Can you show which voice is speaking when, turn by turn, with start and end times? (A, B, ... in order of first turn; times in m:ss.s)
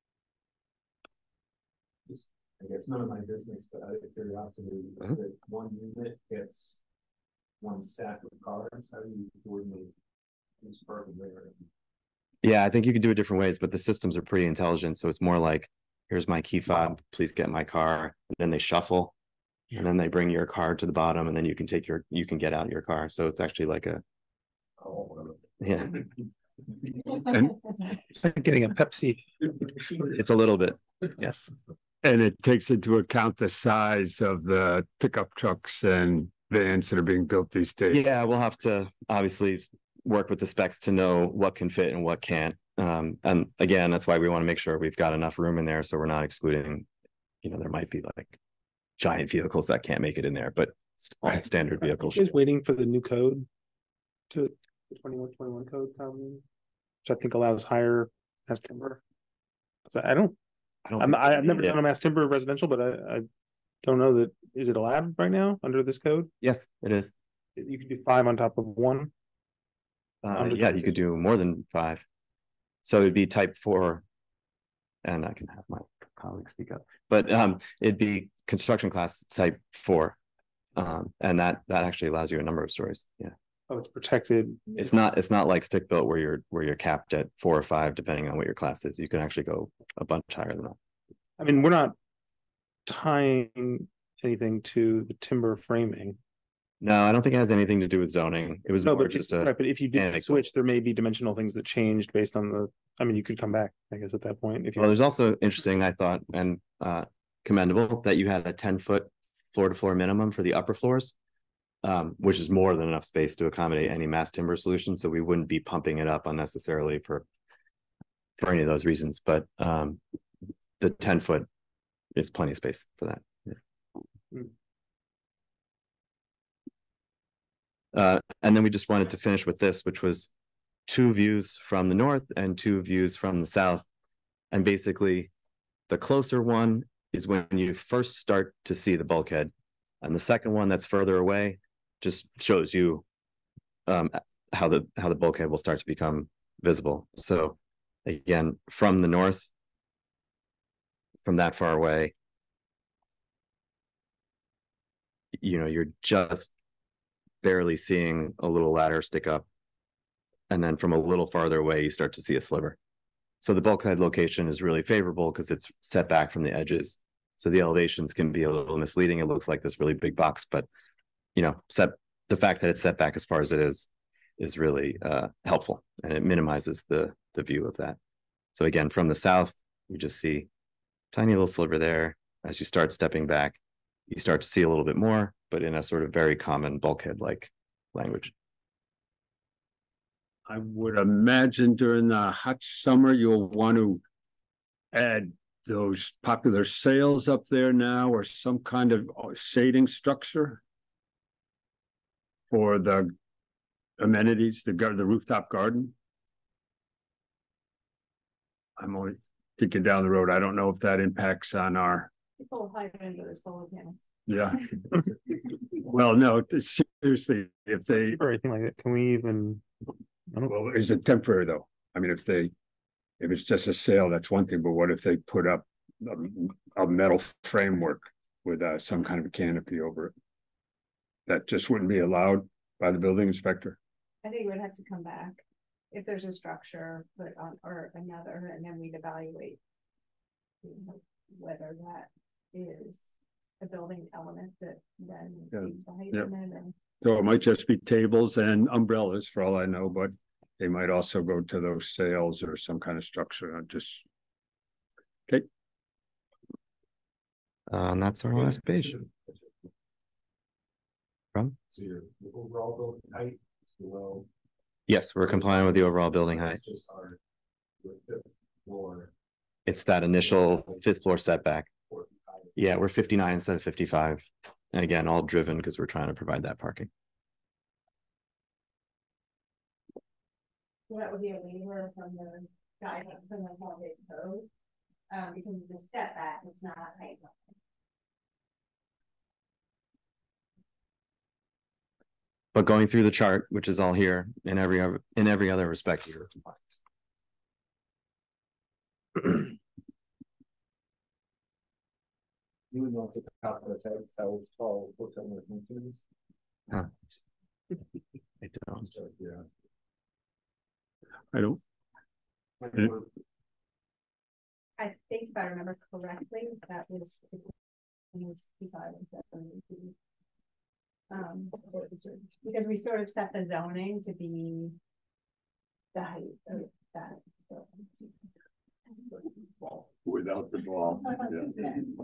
0:02.1-0:06.8 A
0:07.6-0:09.9 A
0:10.6-0:11.7 A
0:12.4-0:19.1 B
0:19.7-0:24.0 B
0:24.9-0:25.3 A
0:25.6-0:26.0 B
0:27.3-0:27.6 C
0:28.0-0:29.5 D
0:30.1-0:31.5 B
0:32.0-0:38.0 C
0:37.9-0:46.9 B
0:47.4-0:48.4 B
0:49.0-0:52.4 B
0:52.1-0:53.5 D
0:54.3-0:56.4 D
0:57.0-0:59.0 D
0:59.9-1:00.4 D
1:00.9-1:01.8 B
1:01.0-1:03.3 D
1:03.8-1:06.3 D
1:06.4-1:07.1 B
1:07.6-1:09.1 D
1:10.2-1:12.0 B
1:10.4-1:11.0 D
1:12.8-1:14.0 B
1:15.0-1:20.2 B
1:20.8-1:23.3 B
1:23.7-1:24.9 D
1:24.7-1:30.8 B
1:31.4-1:32.0 D
1:32.9-1:36.2 D
1:36.8-1:40.5 B
1:38.8-1:44.9 D
1:44.8-1:51.2 B
1:51.8-1:57.2 B
1:58.4-2:00.0 B
2:00.8-2:01.5 B
2:02.2-2:03.6 B
2:07.9-2:10.3 B
2:10.9-2:13.9 B
2:14.5-2:15.3 B
2:15.9-2:19.5 B
2:20.0-2:23.0 B
2:23.9-2:29.5 B
2:31.3-2:32.1 B
2:35.4-2:36.5 B
2:37.4-2:39.5 B
2:40.5-2:42.8 B
2:43.4-2:50.7 B
2:51.4-2:53.9 B
2:54.4-2:58.0 B
2:58.6-3:00.5 B
3:01.1-3:08.3 B
3:10.5-3:14.0 C
3:14.9-3:20.6 C
3:22.5-3:23.1 C
3:24.0-3:25.9 C
3:28.8-3:32.1 C
3:32.4-3:34.0 E
3:34.3-3:34.6 C
3:35.8-3:38.2 C
3:38.0-3:39.6 D
3:40.5-3:42.5 C
3:43.2-3:50.1 C
3:51.3-3:53.8 C
3:54.2-3:59.6 E
4:00.6-4:06.8 E
4:05.5-4:06.3 C
4:07.0-4:14.0 C
4:17.7-4:19.0 B
4:18.4-4:19.5 A
4:21.7-4:24.3 A
4:24.9-4:26.6 B
4:26.4-4:27.2 A
4:27.8-4:29.1 A
4:29.7-4:31.7 B
4:31.9-4:32.5 A
4:32.6-4:36.9 B
4:40.9-4:44.5 E
4:45.1-4:47.5 E
4:52.5-4:56.3 B
5:02.7-5:06.0 A
5:08.4-5:08.9 B
5:08.9-5:09.4 A
5:11.3-5:11.6 C
5:12.6-5:13.0 A
5:14.8-5:17.5 E
5:18.1-5:19.9 E
5:21.1-5:24.8 E
5:25.9-5:27.8 E
5:30.0-5:31.5 C
5:31.2-5:31.8 E